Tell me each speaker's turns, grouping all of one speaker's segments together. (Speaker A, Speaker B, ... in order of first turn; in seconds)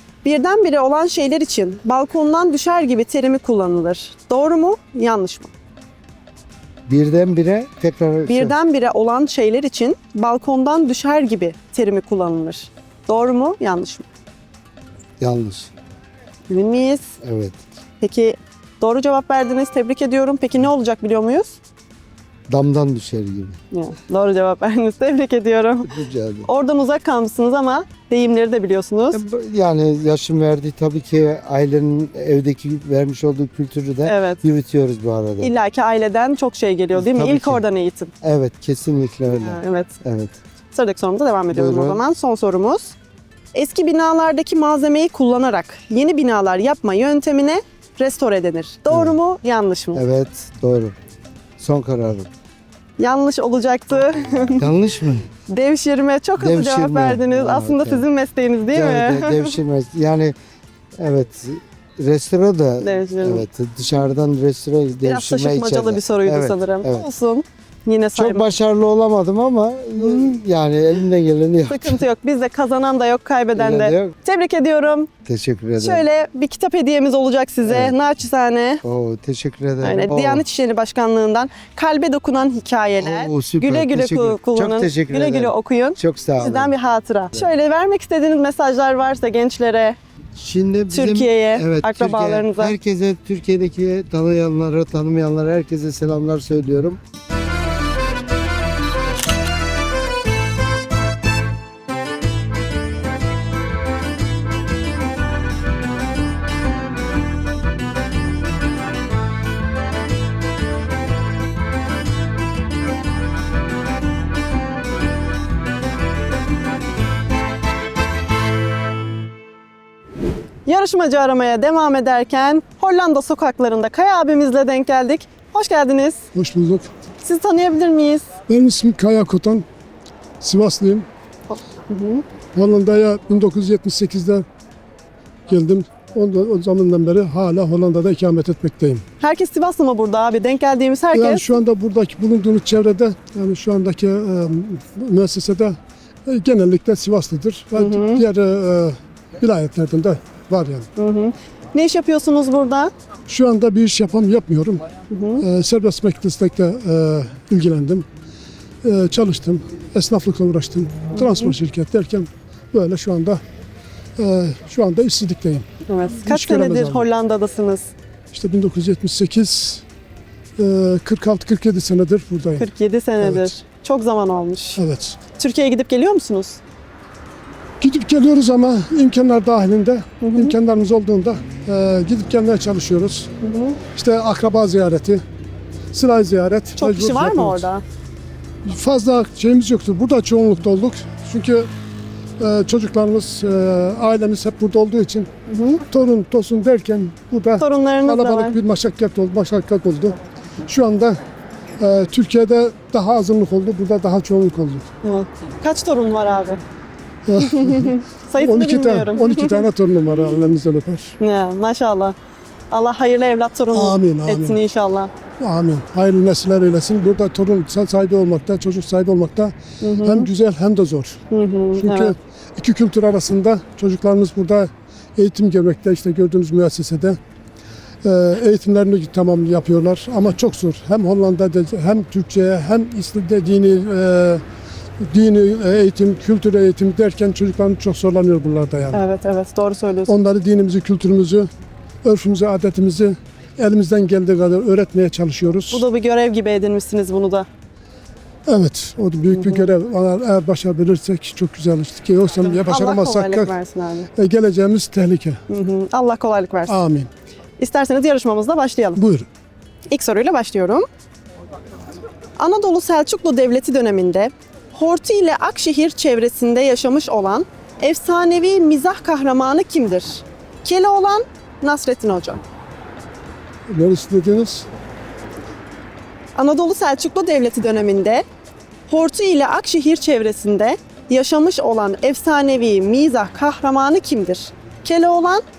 Speaker A: 0.2-5.5, 8.3-14.1, 16.5-17.1, 18.0-21.6, 23.7-25.9, 26.4-29.2, 34.0-34.4, 35.4-38.1, 39.4-39.9, 40.7-42.9, 43.5-50.0, 53.0-54.6, 55.5-59.5, 62.8-63.4, 65.0-68.5, 70.0-70.3, 71.7-75.1, 75.8-78.8, 79.8-90.0, 90.9-92.7, 120.7-126.3, 127.2-128.3, 131.5-132.2, 139.2-141.6, 147.8-148.2, 151.0-152.9, 155.1-155.4, 161.1-161.6, 165.9-167.9, 172.6-174.8, 175.4-176.6, 180.2-180.6, 183.4-183.8, 186.8-187.8, 195.5-195.8, 197.6-198.6, 205.0-206.6, 207.4-209.6, 211.2-212.1, 212.7-215.1, 219.8-220.3, 221.3-222.1, 238.9-240.1, 245.7-247.5, 249.3-249.7, 252.7-254.1, 255.5-256.8, 257.6-259.0, 259.9-260.9, 262.4-272.4, 276.4-278.2, 278.9-285.4
Speaker B: 6.9-8.6, 15.2-15.7, 17.2-17.6, 22.5-23.6, 25.8-26.5, 29.1-35.5, 37.0-37.6, 38.2-40.4, 41.5-42.0, 48.9-49.2, 49.9-50.9, 51.6-52.3, 54.5-55.3, 56.4-58.0, 58.7-60.4, 61.0-67.1, 68.2-72.0, 73.5-74.1, 75.2-76.0, 77.6-77.9, 78.8-80.4, 83.0-86.7, 90.3-97.0
Speaker C: 126.3-126.9, 128.5-129.7, 130.4-131.1, 132.6-134.4, 135.5-139.1, 141.1-150.9, 153.3-154.8, 155.4-158.1, 158.8-163.4, 164.2-165.7, 166.2-167.1, 168.3-169.8, 170.6-172.7, 173.2-173.5, 174.8-175.2, 177.8-183.3, 183.9-185.2, 185.9-187.7, 188.6-191.7, 192.4-195.3, 195.9-200.2, 200.7-201.2, 201.8-204.9, 207.2-211.2, 213.7-214.6, 215.4-221.2, 221.8-227.2, 228.0-234.4, 235.0-239.0, 240.1-241.5, 242.0-245.9, 248.5-253.6, 254.2-255.4, 256.7-257.1, 258.9-259.3, 273.7-274.6